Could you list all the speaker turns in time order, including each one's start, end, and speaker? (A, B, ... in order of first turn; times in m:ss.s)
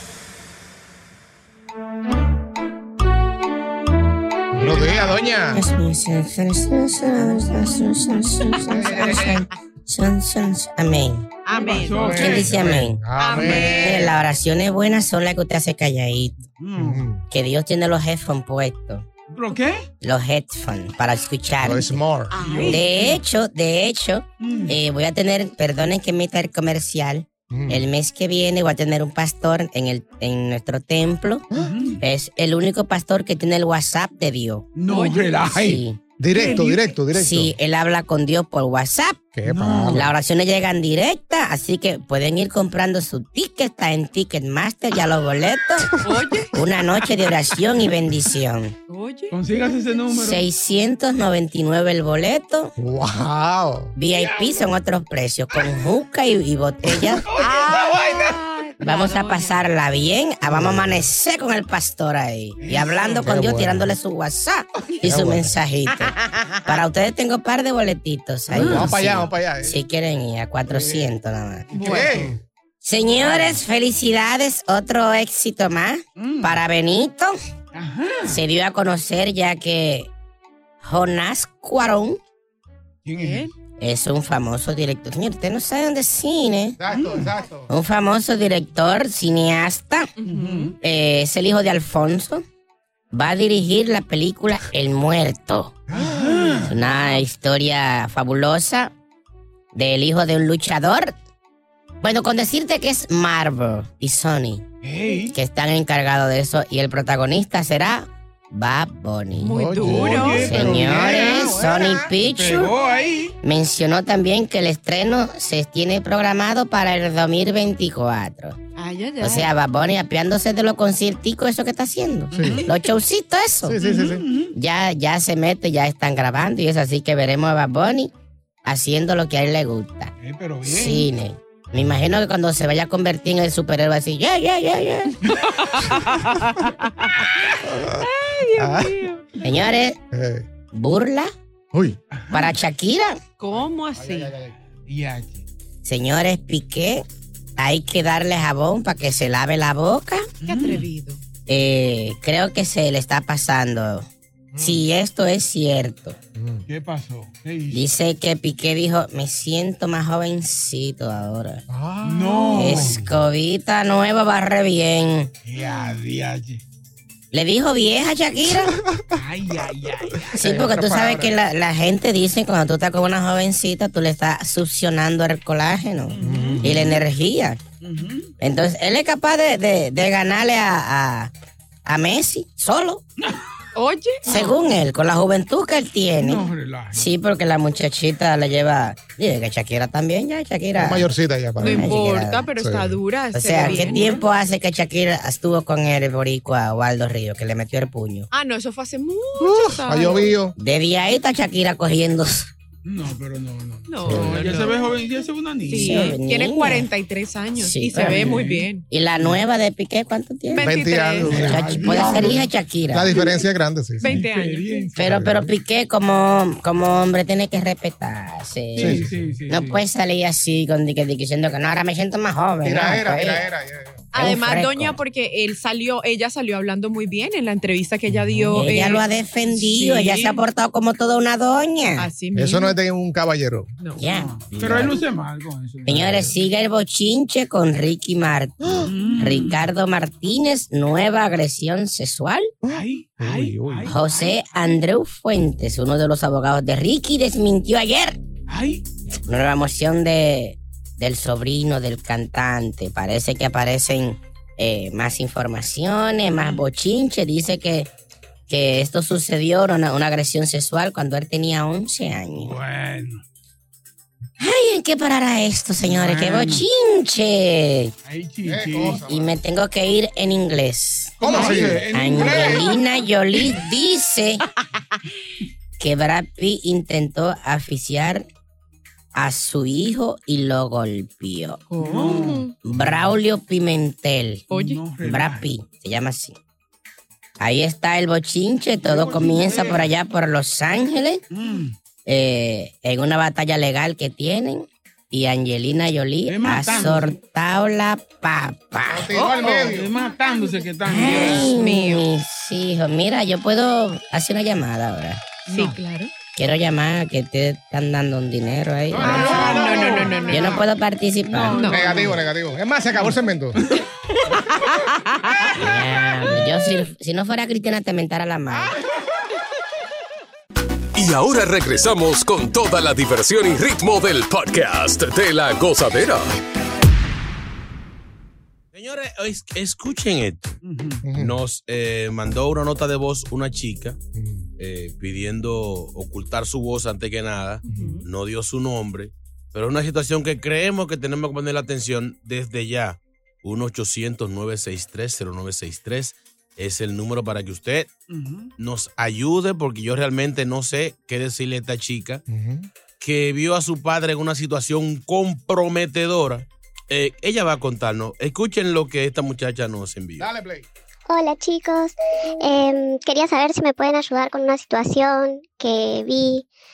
0:04.5-0:05.6 A
0:05.5-0:11.3 B
0:08.7-0:09.3 A
0:08.8-0:09.4 C
0:11.4-0:14.1 C
0:11.6-0:12.8 D
0:11.9-0:14.2 A
0:12.1-0:16.4 B
0:16.6-0:17.1 D
0:16.8-0:17.2 A
0:17.3-0:19.0 B
0:19.3-0:19.8 D
0:20.0-0:22.0 B
0:21.6-0:22.4 A
0:22.3-0:23.2 C
0:22.3-0:22.9 D
0:22.7-0:31.5 B
0:24.4-0:24.8 D
0:27.5-0:27.9 A
0:31.5-0:31.8 A
0:31.5-0:32.0 D
0:32.0-0:34.8 B
0:34.7-0:37.0 D
0:34.9-0:35.4 C
0:35.4-0:36.0 B
0:36.2-0:37.5 A
0:37.1-0:39.2 B
0:39.4-0:40.1 A
0:39.5-0:40.1 D
0:39.9-0:46.0 B
0:46.0-0:46.5 C
0:46.5-0:48.7 B
0:48.9-0:50.0 C
0:49.3-0:50.5 D
0:50.1-0:52.7 B
0:52.8-0:53.9 A
0:54.0-0:57.2 B
0:54.1-0:54.6 D
0:56.9-0:58.4 D
0:57.4-0:59.6 C
0:58.8-1:12.0 B
1:00.4-1:01.1 A
1:02.6-1:03.4 D
1:03.2-1:03.9 A
1:05.0-1:05.6 A
1:08.5-1:09.2 D
1:08.5-1:09.8 A
1:10.7-1:11.1 D
1:11.7-1:12.4 D
1:11.8-1:12.1 C
1:11.8-1:12.4 A
1:12.8-1:17.4 B
1:13.0-1:13.6 D
1:16.2-1:16.6 D
1:17.7-1:18.4 D
1:18.2-1:20.1 B
1:20.8-1:22.2 B
1:23.0-1:23.5 D
1:23.2-1:23.5 C
1:23.8-1:26.8 B
1:26.8-1:27.7 A
1:26.9-1:27.3 D
1:27.7-1:30.1 B
1:30.2-1:30.7 C
1:30.2-1:30.8 D
1:30.8-1:32.4 B
1:33.1-1:35.8 B
1:35.9-1:36.7 D
1:35.9-1:36.5 A
1:36.6-1:38.9 B
1:36.9-1:37.2 C
1:39.7-1:41.2 B
1:42.0-1:44.7 B
1:44.8-1:45.4 D
1:45.3-1:52.7 B
1:49.3-1:50.7 C
1:49.5-1:52.1 A
1:49.8-1:51.6 D
1:52.2-1:53.4 D
1:53.4-1:58.6 B
1:58.8-1:59.5 C
1:59.2-2:03.8 B
2:02.3-2:02.7 D
2:02.3-2:02.7 A
2:03.6-2:04.2 A
2:03.8-2:04.5 D
2:04.5-2:08.1 B
2:08.7-2:10.1 B
2:10.2-2:11.1 D
2:10.6-2:15.3 B
2:15.8-2:17.3 C
2:17.6-2:19.0 A
2:18.0-2:19.3 C
2:19.4-2:20.0 B
2:20.1-2:20.5 A
2:20.7-2:21.3 B
2:21.7-2:22.0 A
2:22.1-2:22.5 D
2:22.3-2:23.2 B
2:23.4-2:24.3 C
2:23.6-2:24.6 A
2:24.9-2:25.4 D
2:25.8-2:27.0 B
2:27.6-2:30.3 B
2:30.4-2:30.9 D
2:30.4-2:31.2 C
2:31.5-2:34.1 B
2:34.5-2:34.8 A
2:34.6-2:36.2 B
2:36.4-2:36.6 A
2:36.7-2:37.9 D
2:37.7-2:41.6 B
2:41.7-2:43.0 A
2:42.0-2:43.0 D
2:42.6-2:45.3 B
2:45.4-2:46.6 D
2:47.3-2:48.8 B
2:49.1-2:50.4 D
2:50.3-2:57.6 B
2:50.3-2:51.3 A
2:56.1-2:57.0 D
2:56.2-2:57.0 A
2:57.8-2:58.3 D
2:58.4-3:01.3 B
3:01.9-3:03.0 B
3:03.8-3:04.6 C
3:04.2-3:12.4 B
3:06.2-3:07.1 D
3:10.8-3:13.0 A
3:11.6-3:14.2 C
3:13.3-3:18.3 B
3:13.6-3:14.1 D
3:18.3-3:20.4 C
3:19.4-3:20.6 A
3:20.6-3:22.5 B
3:22.8-3:26.2 D
3:23.9-3:25.0 C
3:24.1-3:24.5 A
3:25.7-3:28.8 C
3:25.7-3:26.9 B
3:27.6-3:28.4 B
3:27.9-3:28.7 D
3:28.9-3:33.1 B
3:30.5-3:32.3 C
3:30.6-3:34.2 A
3:31.2-3:32.5 D
3:34.0-3:35.0 C
3:34.0-3:35.3 D
3:35.0-3:43.4 B
3:35.0-3:35.5 A
3:38.8-3:39.8 D
3:38.8-3:39.1 A
3:42.6-3:44.1 A
3:44.1-3:50.4 C
3:44.2-3:45.0 B
3:48.1-3:48.7 A
3:48.5-3:52.1 B
3:52.0-3:52.8 C
3:52.4-3:53.7 A
3:54.0-3:55.0 B
3:54.1-3:56.4 D
3:55.9-4:02.5 B
3:58.6-3:58.9 A
3:58.8-3:59.6 D
4:02.6-4:04.0 A
4:02.6-4:04.4 D
4:03.9-4:08.2 B
4:08.5-4:08.8 D
4:09.3-4:17.9 B
4:18.5-4:22.6 B
4:22.4-4:23.2 D
4:24.4-4:27.9 B
4:25.8-4:26.6 D
4:28.1-4:29.0 D
4:28.5-4:29.3 A
4:29.0-4:34.4 B
4:31.2-4:33.6 D
4:31.2-4:32.6 A
4:35.8-4:38.3 B
4:39.2-4:41.6 B
4:41.7-4:42.6 C
4:41.8-4:43.1 D
4:42.6-4:44.4 B
4:44.5-4:44.9 C
4:44.5-4:45.5 D
4:45.0-4:46.4 B
4:47.4-4:51.2 B
4:48.8-4:49.9 D
4:51.3-4:51.8 D
4:52.1-4:59.4 B
4:56.3-4:57.2 D
4:58.9-4:59.9 A
4:59.3-5:02.1 C
4:59.6-5:01.6 D
5:00.8-5:05.4 B
5:05.5-5:06.1 C
5:06.4-5:11.7 B
5:09.0-5:10.0 A
5:09.0-5:10.7 C
5:09.0-5:10.6 D
5:11.3-5:12.2 C
5:11.6-5:13.6 A
5:14.3-5:15.6 C
5:15.6-5:18.7 B
5:21.0-5:26.3 E
5:28.7-5:30.6 F
5:30.6-5:31.0 D
5:31.0-5:31.4 A
5:31.1-5:34.0 F
5:34.2-5:34.4 A
5:34.6-5:47.9 F
5:37.7-5:38.0 C
5:37.7-5:38.0 A
5:48.1-5:48.5 D
5:48.6-5:52.2 F
5:52.3-5:52.7 A
5:53.0-6:00.3 F
6:00.2-6:00.7 A
6:01.1-6:06.5 G